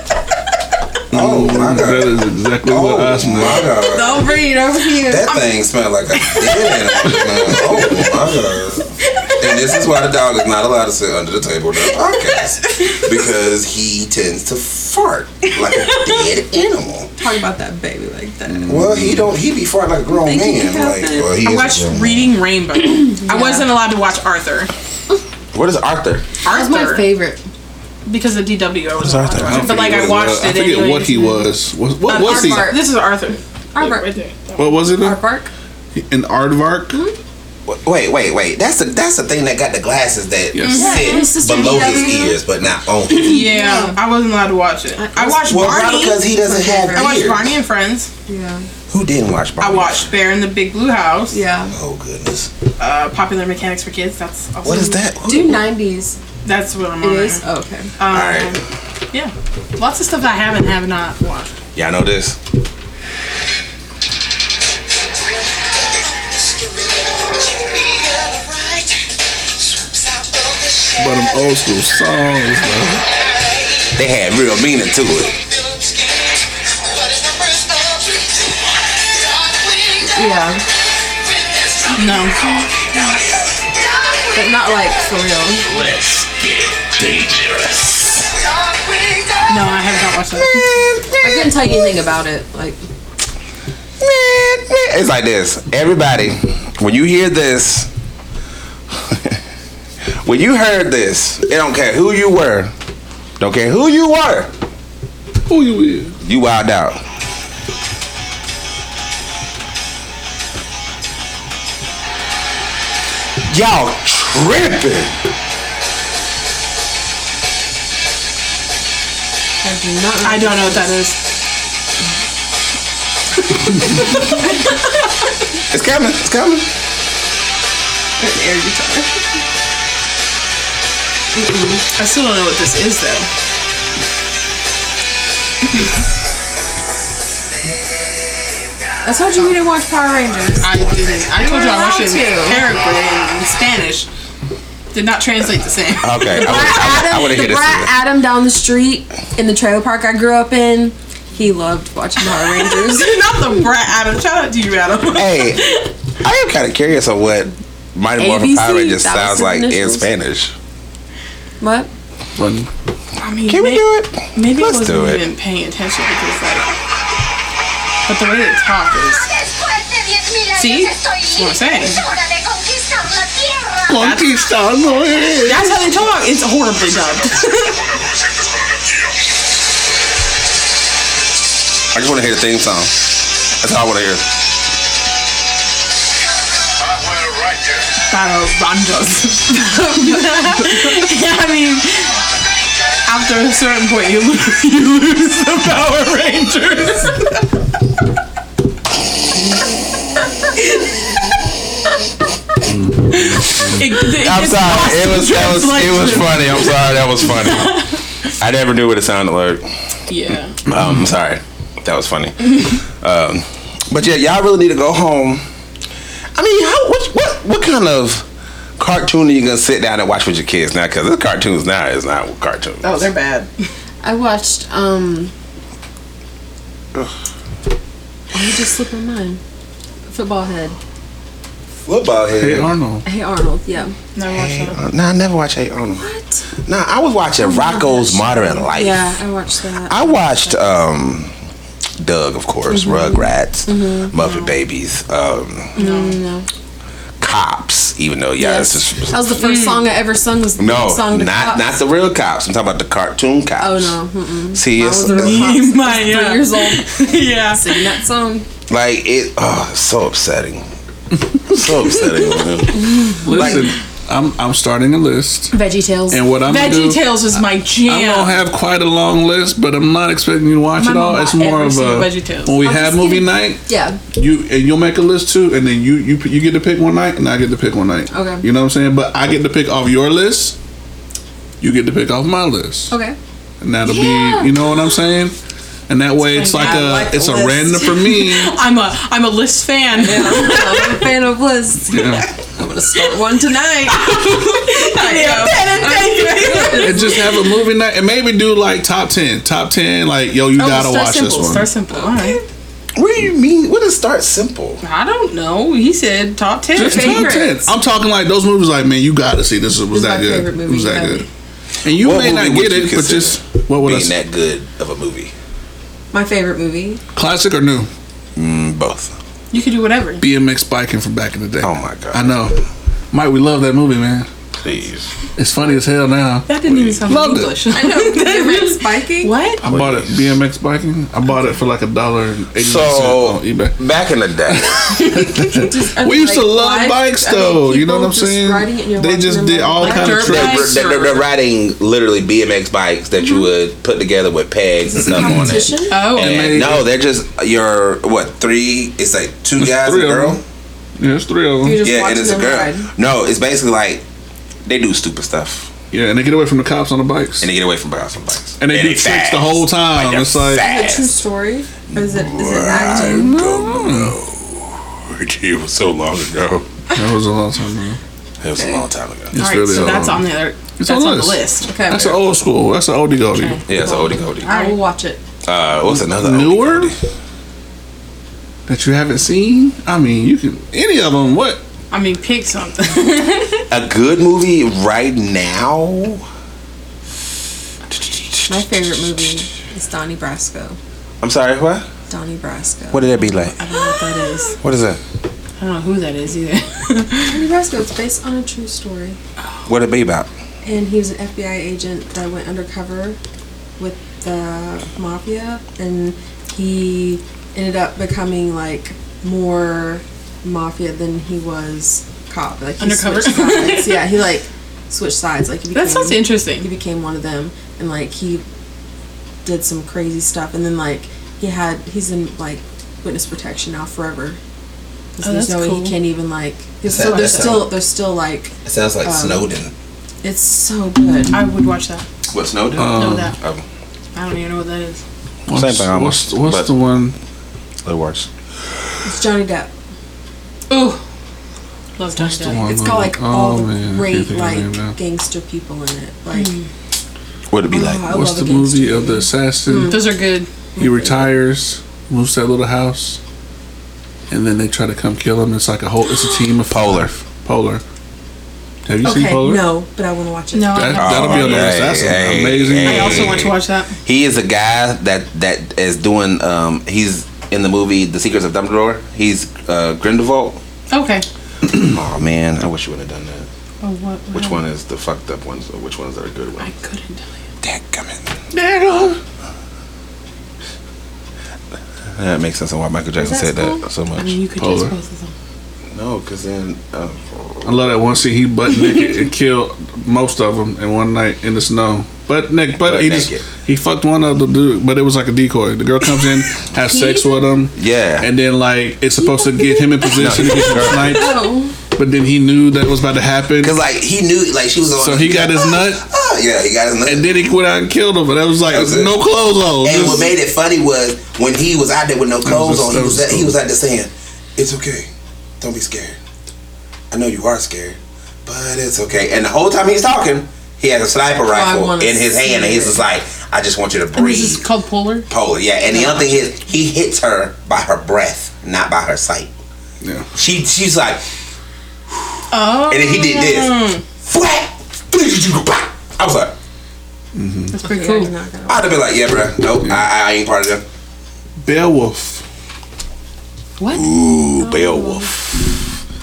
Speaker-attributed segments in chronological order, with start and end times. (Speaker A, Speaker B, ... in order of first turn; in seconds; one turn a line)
Speaker A: 1.1-3.7
Speaker B: 1.1-4.3
Speaker C: 3.7-4.4
Speaker D: 3.8-5.5
Speaker B: 5.0-17.1
Speaker C: 6.7-7.2
Speaker C: 12.7-13.0
Speaker C: 15.8-16.2
Speaker D: 17.2-18.6
Speaker A: 18.5-19.3
Speaker B: 18.6-22.4
Speaker D: 20.1-21.3
Speaker C: 21.4-24.7
Speaker D: 23.2-23.7
Speaker B: 25.5-26.2
Speaker C: 26.4-27.1
Speaker D: 26.4-27.4
Speaker C: 28.1-31.4
Speaker B: 29.0-30.3
Speaker A: 29.4-32.7
Speaker C: 32.1-34.9
Speaker D: 32.1-32.8
Speaker D: 33.7-34.2
Speaker A: 34.6-35.2
Speaker D: 35.0-35.5
Speaker A: 35.9-37.0
Speaker B: 37.6-43.5
Speaker A: 40.5-40.9
Speaker C: 40.6-41.6
Speaker D: 40.7-42.4
Speaker C: 43.1-46.2
Speaker D: 43.3-44.0
Speaker D: 45.0-47.3
Speaker B: 45.4-47.6
Speaker C: 46.9-48.1
Speaker D: 48.3-48.6
Speaker B: 48.9-50.1
Speaker C: 49.6-51.4
Speaker D: 51.3-51.8
Speaker B: 51.7-52.5
Speaker C: 52.8-55.0
Speaker B: 54.6-55.6
Speaker D: 55.2-56.2
Speaker C: 56.4-57.4
Speaker D: 57.0-57.9
Speaker C: 58.0-58.6
Speaker B: 58.1-58.6
Speaker C: 59.1-61.5
Speaker B: 61.7-62.4
Speaker A: 71.0-73.0
Speaker B: 74.0-75.4
Speaker D: 80.0-80.6
Speaker C: 82.0-82.6
Speaker D: 84.3-85.7
Speaker B: 85.7-88.3
Speaker B: 88.9-89.3
Speaker C: 89.5-90.8
Speaker B: 90.3-92.0
Speaker D: 91.2-92.8
Speaker B: 94.0-97.9
Speaker B: 98.9-99.4
Speaker B: 100.2-102.7
Speaker B: 103.4-104.5
Speaker A: 105.5-106.2
Speaker B: 106.2-107.0
Speaker B: 113.5-115.2
Speaker D: 119.6-120.9
Speaker C: 120.2-121.2
Speaker C: 123.7-124.7
Speaker B: 125.7-126.7
Speaker D: 128.2-129.2
Speaker D: 131.3-131.8
Speaker C: 131.9-133.3
Speaker D: 139.0-140.7
Speaker C: 140.6-144.1
Speaker D: 141.3-142.6
Speaker C: 144.9-146.5
Speaker B: 146.0-147.9
Speaker D: 146.3-153.5
Speaker C: 152.3-155.9
Speaker B: 155.1-155.6
Speaker B: 156.2-160.5
Speaker D: 158.2-160.1
Speaker D: 161.6-161.9
Speaker A: 162.3-162.7
Speaker C: 163.2-166.8
Speaker B: 163.4-165.3
Speaker C: 168.1-169.3
Speaker C: 170.5-172.1
Speaker A: 173.8-175.9
Speaker C: 174.0-174.3
Speaker C: 175.4-177.9
Speaker B: 181.9-183.0
Speaker B: 183.5-184.3
Speaker C: 188.1-192.2
Speaker D: 189.7-190.8
Speaker C: 193.1-197.2
Speaker A: 202.7-203.8
Speaker C: 203.1-208.0
Speaker B: 204.1-207.8
Speaker B: 208.4-209.6
Speaker C: 210.1-210.6
Speaker B: 210.7-215.4
Speaker B: 216.3-218.2
Speaker B: 218.8-223.1
Speaker C: 222.8-223.5
Speaker D: 224.0-225.3
Speaker D: 228.3-229.4
Speaker D: 230.1-230.8
Speaker B: 231.8-232.7
Speaker A: 232.3-233.0
Speaker D: 233.0-233.9
Speaker C: 234.1-234.8
Speaker B: 234.2-236.1
Speaker D: 236.0-236.4
Speaker B: 236.6-239.1
Speaker D: 237.4-240.7
Speaker B: 239.8-241.3
Speaker B: 242.0-245.8
Speaker D: 242.7-244.2
Speaker C: 245.7-246.2
Speaker D: 245.7-246.4
Speaker B: 247.2-249.4
Speaker D: 248.4-251.7
Speaker C: 249.4-249.9
Speaker B: 250.6-253.9
Speaker D: 253.6-258.5
Speaker B: 254.5-255.6
Speaker C: 255.0-257.9
Speaker B: 258.7-260.7
Speaker B: 261.5-263.7
Speaker D: 262.8-263.1
Speaker A: 263.1-265.5
Speaker D: 265.5-266.2
Speaker A: 266.1-267.0
Speaker C: 266.4-268.4
Speaker A: 267.8-280.6
Speaker C: 270.8-272.6
Speaker D: 272.6-274.0
Speaker D: 278.1-278.4
Speaker A: 281.6-282.9
Speaker D: 282.9-283.2
Speaker A: 283.6-285.3
Speaker D: 283.9-284.5
Speaker A: 285.9-288.6
Speaker C: 286.2-291.1
Speaker D: 286.6-287.9
Speaker D: 289.9-297.2
Speaker A: 291.9-292.3
Speaker C: 293.9-297.2
Speaker A: 296.7-301.7
Speaker C: 300.6-302.4
Speaker B: 302.9-304.8
Speaker C: 304.8-307.3
Speaker A: 306.7-311.2
Speaker D: 306.8-307.7
Speaker D: 309.9-311.3
Speaker A: 311.8-314.1
Speaker B: 311.9-315.3
Speaker D: 316.1-317.0
Speaker A: 317.1-317.9
Speaker B: 318.4-319.1
Speaker C: 319.5-320.2
Speaker A: 320.2-324.3
Speaker B: 321.6-322.5
Speaker B: 324.6-325.1
Speaker A: 325.4-326.5
Speaker C: 326.5-329.6
Speaker B: 326.7-327.0
Speaker A: 327.1-327.6
Speaker D: 327.7-329.3
Speaker A: 329.6-333.8
Speaker B: 329.6-330.3
Speaker B: 332.6-334.8
Speaker A: 334.5-340.7
Speaker C: 335.2-335.6
Speaker D: 335.6-340.7
Speaker C: 339.8-341.2
Speaker B: 340.2-350.4
Speaker D: 344.9-346.1
Speaker C: 345.9-346.6
Speaker A: 346.1-346.9
Speaker A: 349.6-350.4
Speaker A: 351.0-351.8
Speaker D: 351.6-352.9
Speaker B: 351.8-354.0
Speaker B: 354.6-355.7
Speaker A: 355.9-357.5
Speaker B: 357.4-361.1
Speaker A: 358.6-360.6
Speaker D: 360.6-363.3
Speaker B: 361.9-366.7
Speaker A: 362.8-364.1
Speaker A: 366.9-368.0
Speaker B: 368.4-369.4
Speaker A: 369.3-373.6
Speaker C: 369.4-371.7
Speaker D: 371.6-372.2
Speaker C: 373.3-374.8
Speaker B: 373.7-374.5
Speaker D: 373.7-375.2
Speaker B: 375.4-376.9
Speaker A: 375.8-376.9
Speaker A: 378.7-381.6
Speaker C: 381.9-383.6
Speaker B: 383.7-386.2
Speaker B: 387.9-388.6
Speaker D: 388.5-390.8
Speaker B: 391.2-391.9
Speaker D: 392.1-393.1
Speaker B: 392.9-393.6
Speaker C: 393.2-394.6
Speaker B: 394.6-395.0
Speaker C: 395.6-397.4
Speaker D: 397.3-399.2
Speaker B: 399.6-400.3
Speaker D: 400.6-403.2
Speaker D: 403.8-418.4
Speaker C: 412.8-414.2
Speaker C: 415.7-416.7
Speaker D: 419.4-424.4
Speaker D: 425.1-429.5
Speaker C: 425.2-426.0
Speaker B: 426.9-427.7
Speaker C: 426.9-427.8
Speaker B: 428.6-429.7
Speaker D: 430.2-431.4
Speaker C: 431.3-432.1
Speaker B: 432.3-433.6
Speaker A: 432.8-433.3
Speaker C: 432.9-433.4
Speaker C: 434.1-435.0
Speaker A: 435.5-437.1
Speaker B: 435.5-436.8
Speaker B: 437.8-438.3
Speaker D: 439.1-439.7
Speaker C: 440.7-441.0
Speaker C: 441.9-442.6
Speaker A: 442.1-444.9
Speaker D: 442.5-446.6
Speaker C: 446.3-446.7
Speaker B: 447.5-448.1
Speaker D: 447.7-451.4
Speaker A: 448.0-450.1
Speaker C: 449.8-450.5
Speaker A: 450.8-453.2
Speaker A: 454.3-457.8
Speaker B: 456.7-457.1
Speaker A: 458.9-459.7
Speaker D: 459.0-461.0
Speaker C: 460.5-461.8
Speaker A: 460.7-463.4
Speaker B: 461.0-470.6
Speaker C: 462.8-463.9
Speaker C: 470.9-471.2
Speaker B: 471.7-473.5
Speaker C: 473.8-474.6
Speaker B: 474.3-476.7
Speaker C: 476.6-477.3
Speaker B: 477.6-478.4
Speaker A: 478.5-479.2
Speaker B: 482.1-484.4
Speaker C: 483.2-485.3
Speaker A: 484.6-484.9
Speaker B: 485.9-487.7
Speaker A: 487.6-503.8
Speaker B: 492.8-493.4
Speaker D: 496.8-497.5
Speaker B: 497.7-498.3
Speaker D: 499.6-500.0
Speaker B: 500.1-501.3
Speaker D: 500.8-501.8
Speaker B: 503.6-507.4
Speaker A: 504.9-506.0
Speaker A: 507.1-510.3
Speaker B: 508.6-509.2
Speaker B: 509.8-516.2
Speaker A: 512.4-513.5
Speaker B: 517.1-524.6
Speaker D: 521.5-523.0
Speaker C: 524.1-525.3
Speaker B: 525.3-529.5
Speaker A: 530.0-530.3
Speaker B: 530.3-531.2
Speaker C: 532.5-534.0
Speaker B: 532.7-536.5
Speaker A: 537.3-537.7
Speaker C: 537.7-538.3
Speaker D: 537.8-539.1
Speaker B: 538.7-540.8
Speaker A: 541.6-542.4
Speaker B: 543.9-545.8
Speaker D: 544.6-545.3